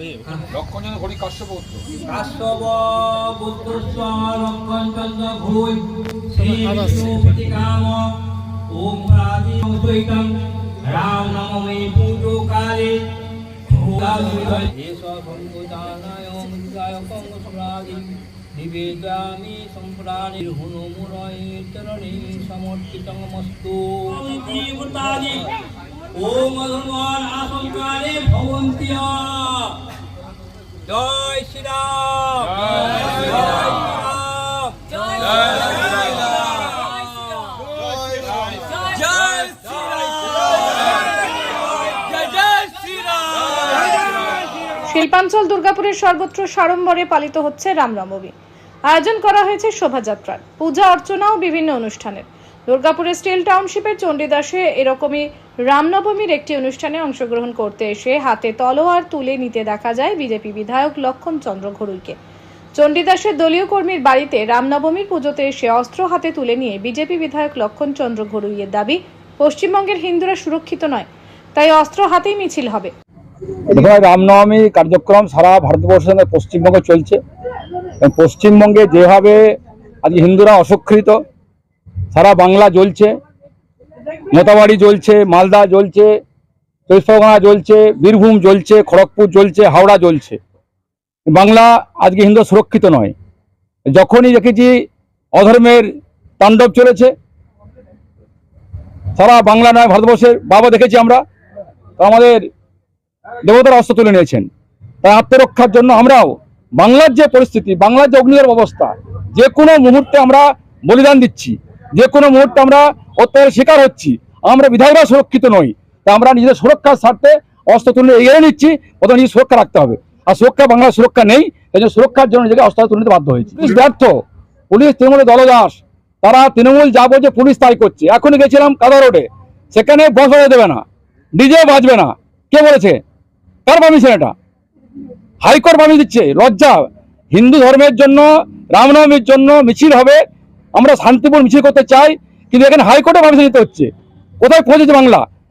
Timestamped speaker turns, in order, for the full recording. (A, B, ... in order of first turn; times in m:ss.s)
0:00.5-0:01.9 A
0:02.0-0:08.0 B
0:08.7-0:10.3 B
0:10.8-0:13.0 B
0:13.7-0:17.8 B
0:16.3-0:16.8 A
0:18.6-0:25.4 B
0:19.2-0:21.4 A
0:23.6-0:23.8 A
0:26.2-0:29.6 B
0:30.9-0:37.5 B
0:38.9-0:40.7 B
0:42.0-0:43.6 B
0:44.9-0:48.3 C
0:48.9-1:02.2 C
1:02.7-1:12.9 C
1:13.7-1:17.2 A
1:18.0-1:21.2 A
1:22.1-1:23.2 A
1:24.3-1:26.2 A
1:26.9-1:30.4 A
1:31.3-1:33.1 A
1:33.9-1:37.1 A
1:39.1-1:41.2 A
1:42.0-1:42.5 A
1:43.4-1:44.5 A
1:45.0-2:13.0 A
2:13.6-2:14.3 A
2:15.4-2:20.2 A
2:20.8-2:25.2 A